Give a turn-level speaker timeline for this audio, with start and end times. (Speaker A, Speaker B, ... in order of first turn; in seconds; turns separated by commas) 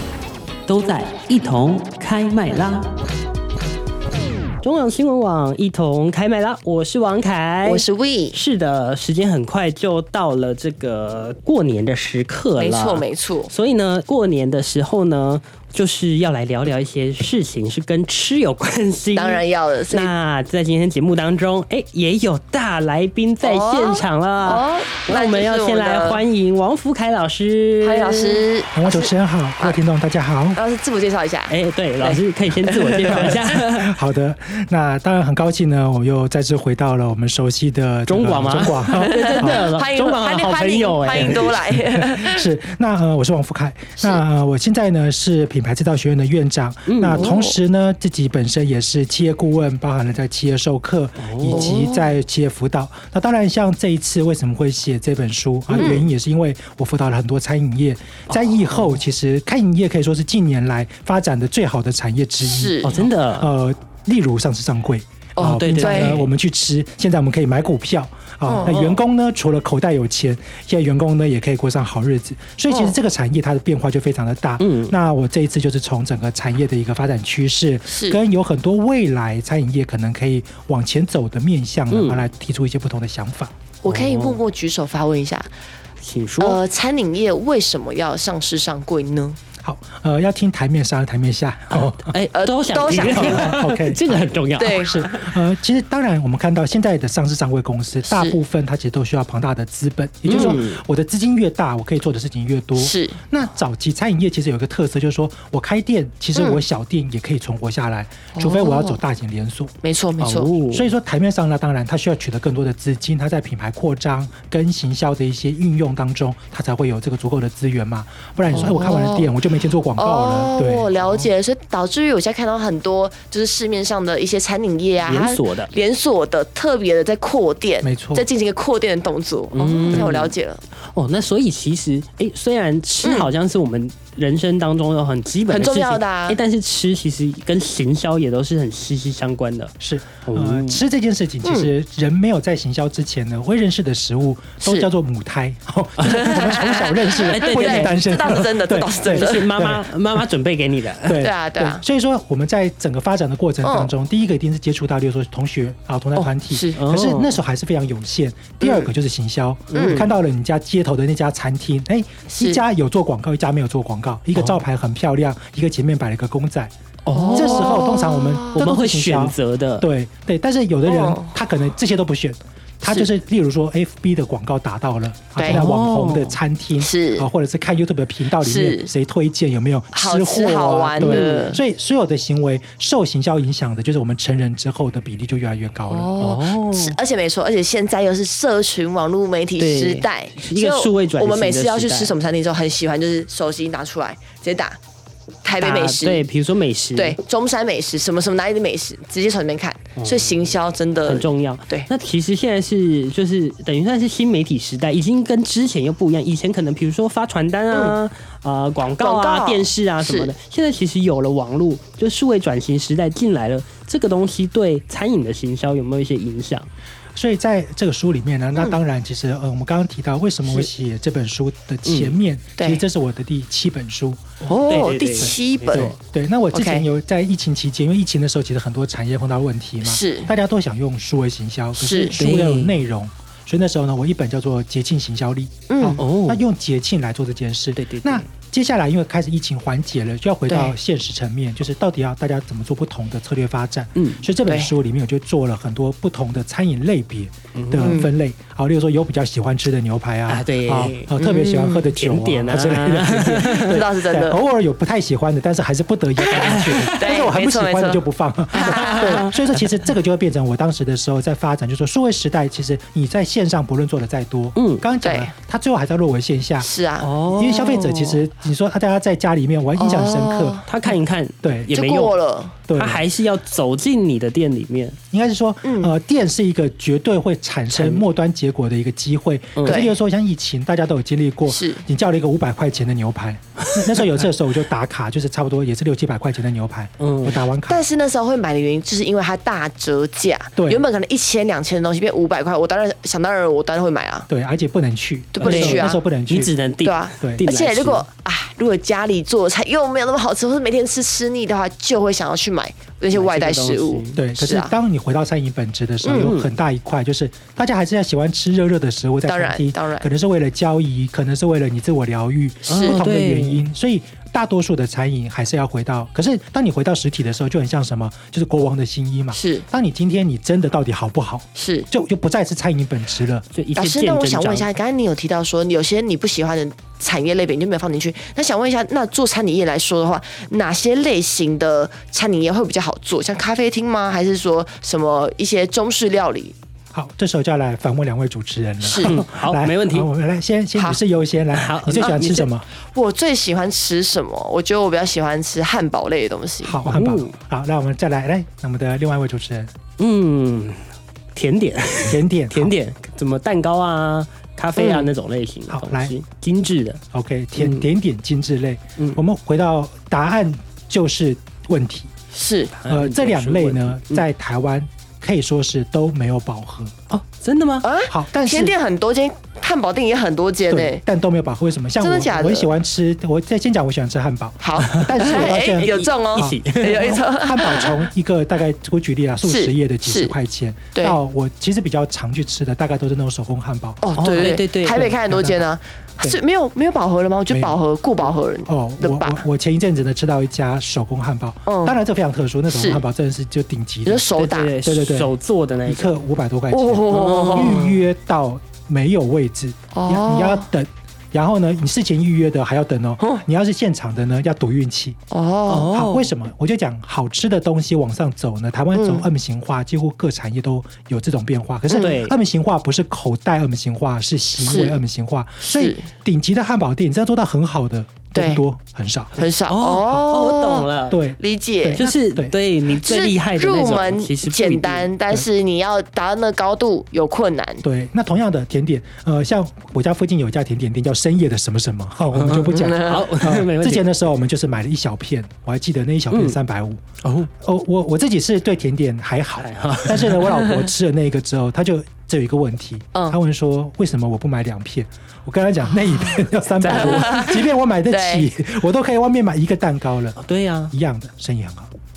Speaker A: 0.7-2.9, Speaker A: 4.6-28.4, Speaker B: 7.6-8.3, Speaker B: 12.6-13.5, Speaker B: 19.1-20.1, Speaker B: 23.4-26.2, Speaker B: 27.8-29.8, Speaker C: 28.7-30.6, Speaker B: 30.5-33.3, Speaker A: 31.5-34.0, Speaker C: 33.0-39.6, Speaker A: 38.1-41.6, Speaker B: 39.0-42.5, Speaker C: 41.1-83.5, Speaker A: 46.9-47.3, Speaker B: 47.1-47.5, Speaker A: 51.2-51.8, Speaker B: 51.5-52.1, Speaker A: 55.7-56.0, Speaker B: 55.8-56.0, Speaker A: 58.3-59.0, Speaker B: 62.4-63.0, Speaker A: 62.8-63.5, Speaker B: 65.3-66.2, Speaker A: 65.4-66.3, Speaker B: 68.5-68.8, Speaker A: 68.6-69.0, Speaker B: 72.7-73.0, Speaker A: 74.6-74.9, Speaker B: 77.9-78.2, Speaker A: 81.9-82.3, Speaker B: 83.8-85.5, Speaker A: 83.8-84.4, Speaker A: 86.0-86.6, Speaker B: 86.4-89.4, Speaker C: 89.6-92.1, Speaker A: 91.7-95.3, Speaker B: 92.3-93.5, Speaker C: 93.0-109.7, Speaker B: 94.6-95.0, Speaker B: 98.0-98.4, Speaker A: 100.2-100.8, Speaker B: 100.3-100.6, Speaker B: 102.8-103.2, Speaker B: 106.3-106.6, Speaker B: 108.3-109.0, Speaker B: 109.8-110.5, Speaker A: 110.2-110.9, Speaker C: 110.7-120.9, Speaker B: 118.5-119.3, Speaker B: 120.0-130.6, Speaker A: 125.0-125.7, Speaker C: 127.8-128.2, Speaker A: 129.5-130.3, Speaker A: 130.9-139.7, Speaker B: 133.0-133.3, Speaker B: 135.5-136.4, Speaker C: 139.8-150.2, Speaker A: 140.2-140.8, Speaker B: 141.4-141.7, Speaker B: 144.6-144.9, Speaker A: 146.0-146.4, Speaker B: 146.0-149.6, Speaker A: 147.1-148.0, Speaker A: 149.0-151.2, Speaker C: 151.1-166.7, Speaker B: 151.1-151.8, Speaker B: 153.6-153.9, Speaker B: 156.2-156.8, Speaker A: 156.8-157.4, Speaker B: 158.6-158.9, Speaker A: 159.7-160.1, Speaker B: 159.7-160.1, Speaker B: 162.3-162.6, Speaker A: 167.1-167.9, Speaker B: 167.1-168.6, Speaker C: 167.3-186.3, Speaker A: 168.5-169.9, Speaker B: 170.8-171.3, Speaker B: 175.3-175.6, Speaker A: 175.4-176.4, Speaker B: 176.8-177.3, Speaker B: 178.4-178.9, Speaker B: 179.9-181.6, Speaker A: 181.0-181.6, Speaker B: 185.9-194.8, Speaker A: 186.2-187.0, Speaker A: 189.6-192.2, Speaker B: 195.4-196.2, Speaker A: 195.6-197.2, Speaker B: 196.9-201.9, Speaker A: 200.0-200.5, Speaker A: 201.1-216.7, Speaker B: 207.7-208.0, Speaker B: 209.0-210.3, Speaker C: 217.1-224.3, Speaker A: 221.8-222.2, Speaker B: 222.6-222.8, Speaker B: 224.4-225.9, Speaker A: 224.4-226.0, Speaker C: 225.2-266.7, Speaker B: 226.5-226.8, Speaker B: 229.8-230.3, Speaker B: 231.8-232.2, Speaker A: 232.2-232.8, Speaker B: 235.7-236.0, Speaker A: 235.9-236.4, Speaker A: 237.7-238.3, Speaker B: 240.5-240.7, Speaker A: 243.9-244.2, Speaker B: 244.4-244.7, Speaker A: 247.5-248.0, Speaker B: 247.8-248.1, Speaker A: 250.3-253.8, Speaker B: 251.2-251.8, Speaker B: 253.5-254.4, Speaker B: 256.2-258.0, Speaker A: 256.3-257.0, Speaker B: 258.5-259.4, Speaker A: 258.5-259.6, Speaker A: 264.6-264.8, Speaker B: 265.0-265.3, Speaker B: 266.6-267.1, Speaker A: 267.0-268.2, Speaker C: 267.3-270.6, Speaker B: 269.8-270.6, Speaker A: 270.6-272.1, Speaker C: 271.4-271.7, Speaker B: 271.7-272.6, Speaker C: 272.7-273.0, Speaker A: 272.7-275.0, Speaker C: 275.1-287.8, Speaker B: 275.6-275.9, Speaker A: 277.7-278.0, Speaker A: 279.6-279.8, Speaker B: 279.6-279.9, Speaker B: 281.5-281.8, Speaker A: 283.6-284.1, Speaker A: 287.0-287.4, Speaker B: 287.7-294.3, Speaker C: 290.6-290.8, Speaker C: 294.3-296.5, Speaker B: 295.3-296.0, Speaker A: 295.4-298.0, Speaker B: 296.8-304.7, Speaker A: 303.1-304.2, Speaker C: 304.1-323.4, Speaker B: 306.0-306.3, Speaker A: 306.1-306.5, Speaker B: 309.3-310.1, Speaker B: 312.6-313.0, Speaker A: 312.7-313.6, Speaker B: 319.3-319.6, Speaker B: 321.6-321.9, Speaker A: 323.5-324.7, Speaker B: 323.8-336.5, Speaker C: 336.9-342.7, Speaker B: 338.8-339.1, Speaker A: 339.0-340.1, Speaker A: 341.5-342.5, Speaker B: 342.9-346.8, Speaker C: 346.6-349.7, Speaker A: 346.8-347.3, Speaker A: 350.0-357.0, Speaker C: 352.1-352.7, Speaker B: 354.8-355.1, Speaker C: 355.7-356.1, Speaker C: 357.1-362.1, Speaker A: 357.6-357.9, Speaker B: 362.3-362.7, Speaker A: 362.7-364.2, Speaker C: 362.9-366.9, Speaker A: 367.1-367.9, Speaker B: 367.8-371.0, Speaker C: 368.1-368.7, Speaker C: 370.7-384.5, Speaker B: 372.0-372.7, Speaker B: 374.6-378.1, Speaker A: 374.8-377.2, Speaker B: 379.4-380.3, Speaker B: 384.0-389.4, Speaker A: 384.1-385.2, Speaker C: 385.0-385.6, Speaker C: 387.5-387.8, Speaker C: 388.7-394.3, Speaker B: 391.6-392.0, Speaker B: 392.7-393.0, Speaker B: 394.0-394.8, Speaker A: 394.4-396.1, Speaker C: 394.8-395.3, Speaker C: 395.9-405.2, Speaker B: 396.7-397.9, Speaker A: 397.1-398.0, Speaker B: 399.9-400.7, Speaker B: 405.3-405.9, Speaker A: 405.7-406.3, Speaker C: 405.9-419.4, Speaker B: 408.9-409.2, Speaker B: 411.9-412.1, Speaker A: 411.9-412.4, Speaker B: 414.6-415.0, Speaker B: 415.6-416.1, Speaker B: 418.3-418.6, Speaker B: 419.4-422.1, Speaker A: 419.7-421.2, Speaker C: 421.1-422.5, Speaker A: 422.0-425.1, Speaker B: 423.0-427.8, Speaker C: 427.8-450.4, Speaker A: 432.3-434.1, Speaker B: 432.7-433.3, Speaker A: 436.3-436.6, Speaker A: 437.2-437.5, Speaker A: 439.6-440.8, Speaker A: 446.8-447.4, Speaker B: 446.9-448.5, Speaker A: 450.4-450.9, Speaker C: 450.9-451.9